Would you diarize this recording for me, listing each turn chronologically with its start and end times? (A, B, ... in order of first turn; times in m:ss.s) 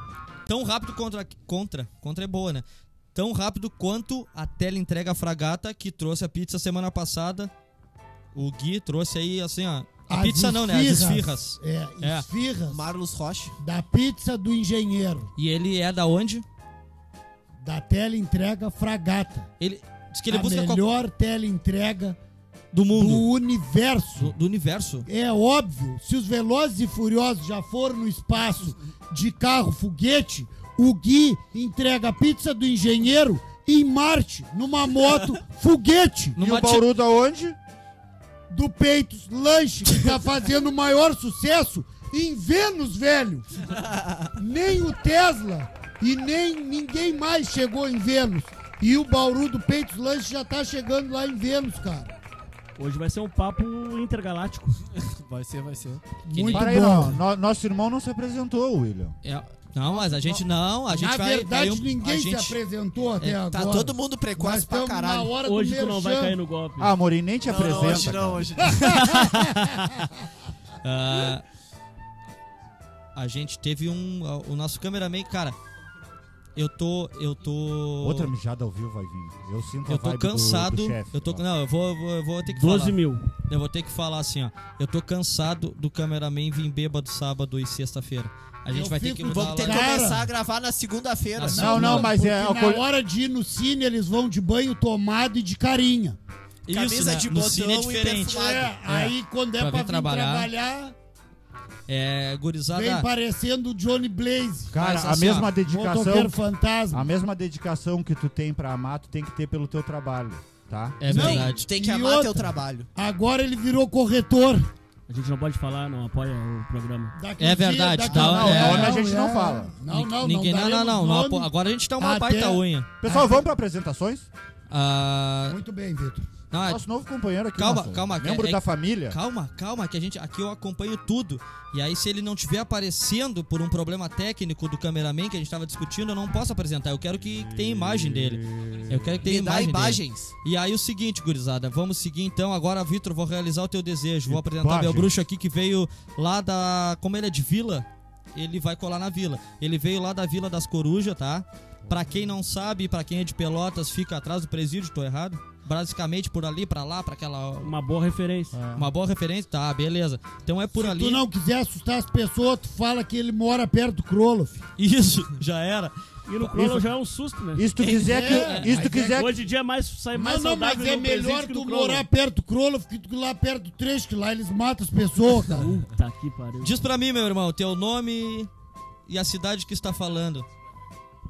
0:00.5-0:07.5 A
0:08.3-0:12.3 A
0:10.1-0:12.8 B
0:12.7-0:13.6 C
0:13.6-0:15.3 B
0:15.4-0:16.4 A
0:17.6-0:19.5 B
0:19.6-0:20.8 A
0:20.3-0:22.2 B
0:22.7-0:23.3 A
0:22.9-0:24.3 B
0:24.2-0:25.1 A
0:25.1-0:36.4 B
0:36.4-0:36.9 A
0:36.4-0:37.6 D
0:38.5-0:43.7 B
0:44.3-0:52.1 B
0:52.8-0:54.8 E
0:55.0-0:56.0 C
0:56.2-0:57.2 B
0:56.3-0:56.9 A
0:56.5-0:59.2 D
0:59.2-1:02.6 A
1:00.1-1:06.4 B
1:03.2-1:03.4 A
1:03.5-1:05.3 C
1:05.4-1:06.9 E
1:06.8-1:08.5 D
1:07.4-1:09.0 C
1:08.7-1:09.8 B
1:10.8-1:11.4 A
1:13.2-1:15.6 A
1:16.6-1:18.3 A
1:18.0-1:21.4 D
1:19.9-1:29.9 A
1:22.5-1:23.3 E
1:28.7-1:30.3 B
1:29.2-1:31.7 C
1:31.4-1:32.1 A
1:31.5-1:36.2 B
1:31.5-1:32.8 D
1:36.7-1:38.3 A
1:36.7-1:38.8 C
1:38.3-1:41.0 B
1:39.6-1:40.5 A
1:41.9-1:43.1 A
1:42.7-1:47.1 B
1:44.7-1:46.4 D
1:44.8-1:45.5 A
1:46.9-1:51.0 D
1:51.0-1:51.7 A
1:51.0-1:54.7 B
1:51.1-1:52.9 C
1:55.1-1:57.2 E
1:57.2-2:03.5 B
1:57.4-1:59.0 A
1:58.0-1:58.6 C
1:58.1-1:59.8 D
1:59.9-2:02.9 A
2:03.0-2:04.3 D
2:04.7-2:05.6 A
2:05.5-2:06.3 B
2:06.5-2:06.8 A
2:06.7-2:09.2 D
2:07.6-2:37.7 A
2:17.3-2:19.2 D
2:19.2-2:20.3 C
2:24.3-2:25.1 D
2:37.6-2:38.6 E
2:38.5-2:38.9 D
2:38.7-2:41.2 A
2:40.8-2:44.6 B
2:44.8-2:45.9 A
2:46.3-2:52.1 E
2:47.5-2:49.3 D
2:47.9-2:49.3 B
2:50.1-2:55.8 B
2:55.5-2:56.8 E
2:56.6-2:58.5 A
2:59.1-3:00.5 A